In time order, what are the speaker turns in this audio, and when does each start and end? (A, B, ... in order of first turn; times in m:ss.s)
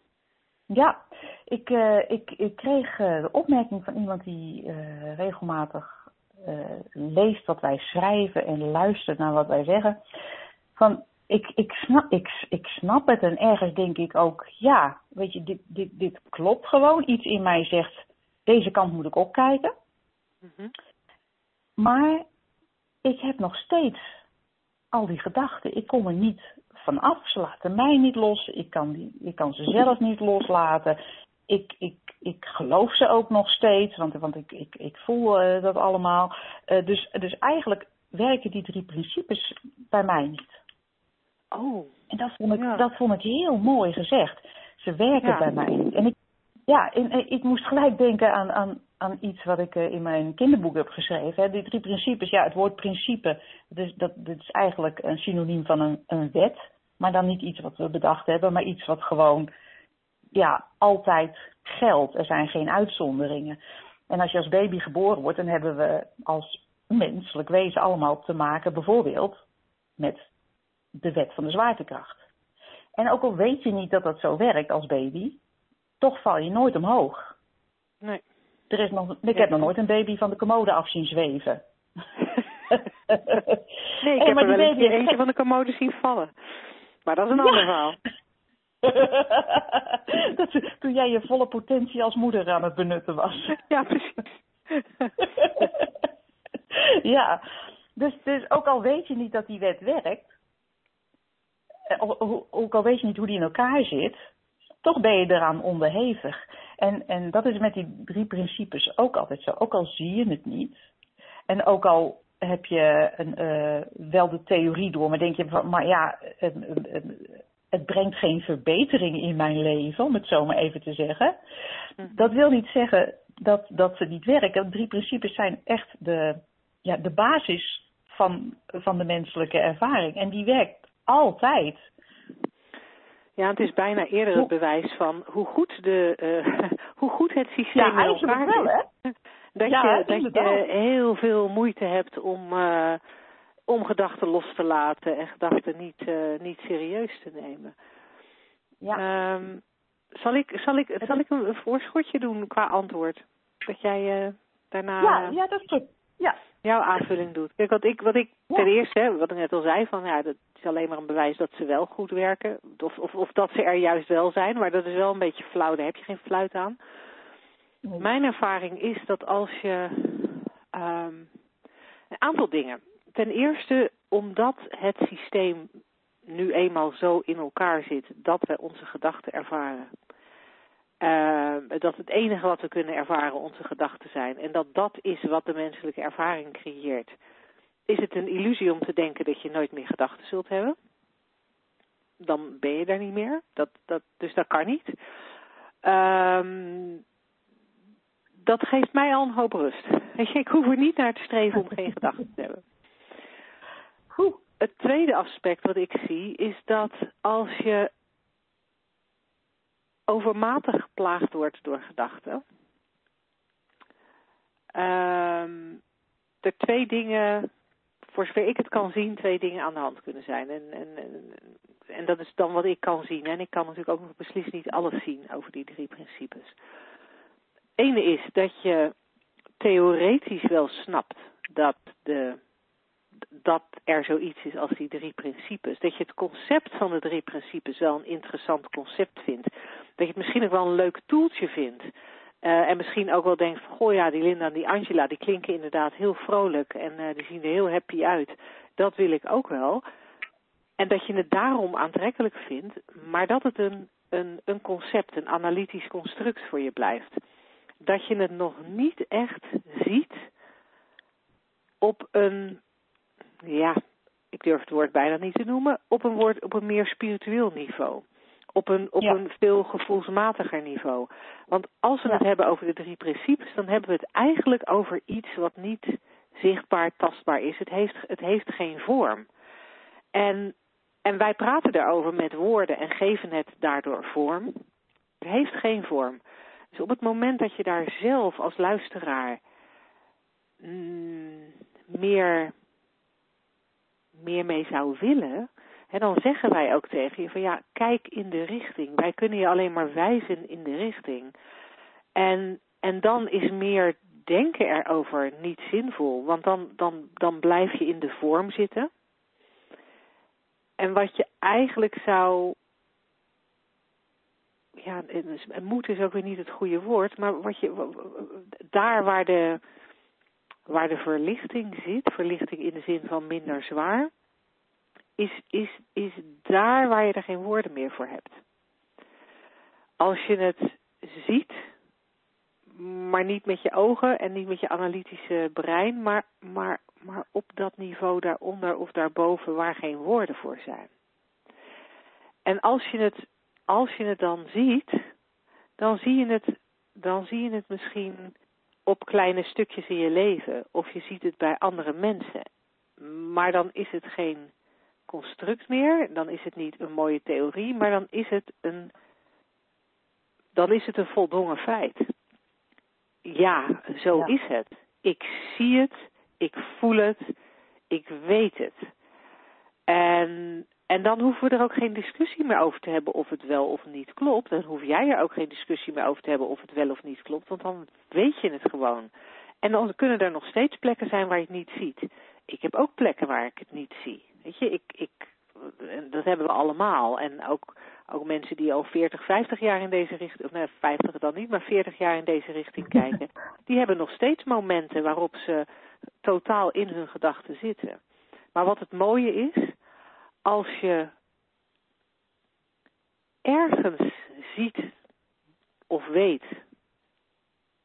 0:00.7-0:10.0 A
0:10.8-0:19.7 A
0:20.4-0:20.7 B
0:21.8-0:22.2 A
0:23.0-0:24.0 A
0:24.9-0:40.6 A
0:41.5-0:41.9 B
0:42.1-0:46.1 A
0:42.6-0:42.8 B
0:45.2-0:45.5 B
0:46.7-0:59.5 A
1:00.3-1:03.6 A
1:04.1-1:09.4 A
1:10.0-1:10.2 A
1:11.0-1:12.2 A
1:13.0-1:15.4 A
1:16.0-1:17.3 A
1:18.7-1:21.6 A
1:19.3-1:19.6 B
1:22.7-1:23.6 A
1:24.0-1:26.3 B
1:24.1-1:25.2 A
1:27.0-1:28.0 B
1:27.3-1:27.6 A
1:28.8-1:33.6 A
1:33.6-1:35.7 B
1:35.4-1:35.9 A
1:36.7-1:37.4 A
1:38.0-1:40.3 A
1:41.9-1:44.2 A
1:44.8-1:50.8 A
1:51.5-2:01.4 A
2:02.0-2:02.3 B
2:02.1-2:11.9 A
2:13.4-2:18.7 B
2:17.7-2:18.8 A
2:19.6-2:23.0 B
2:19.6-2:20.6 A
2:23.7-2:27.7 B
2:29.0-2:29.6 B
2:30.2-2:35.4 B
2:35.0-2:36.4 A
2:36.6-2:46.8 B
2:47.8-2:48.1 A
2:48.0-2:51.3 B
2:52.2-2:55.7 B
2:56.3-2:59.9 B
3:01.0-3:07.1 B
3:07.9-3:10.8 B
3:12.2-3:14.9 B
3:15.8-3:17.0 B
3:18.4-3:22.6 B
3:24.1-3:24.4 A
3:24.6-3:27.9 B
3:30.1-3:32.4 B
3:34.7-3:35.8 B
3:36.4-3:37.5 B
3:38.1-3:46.5 B
3:47.8-3:48.9 B
3:49.6-3:52.4 B
3:53.4-4:01.9 B
4:02.4-4:09.8 B
4:10.8-4:17.2 B
4:17.8-4:20.2 B
4:21.8-4:22.6 B
4:23.4-4:23.8 B
4:24.3-4:28.0 B
4:28.6-4:39.3 B
4:40.1-4:44.6 B
4:45.2-4:46.2 B
4:46.7-4:49.4 B
4:50.6-4:52.5 B
4:54.2-5:01.3 B
5:02.2-5:08.9 B
5:10.8-5:12.6 B
5:14.8-5:19.6 B
5:20.7-5:24.1 B
5:25.2-5:28.4 B
5:30.0-5:31.6 B
5:32.7-5:40.9 B
5:42.4-5:45.0 B
5:45.8-5:48.3 B
5:48.9-5:52.4 B
5:53.0-5:54.5 B
5:55.1-5:58.9 B
6:00.5-6:02.1 B
6:03.2-6:07.3 B
6:07.9-6:08.9 B
6:09.9-6:19.1 B
6:19.6-6:35.6 B
6:36.2-6:38.0 B
6:38.5-6:39.7 B
6:40.4-6:41.1 B
6:43.4-6:44.9 B
6:45.9-6:46.6 B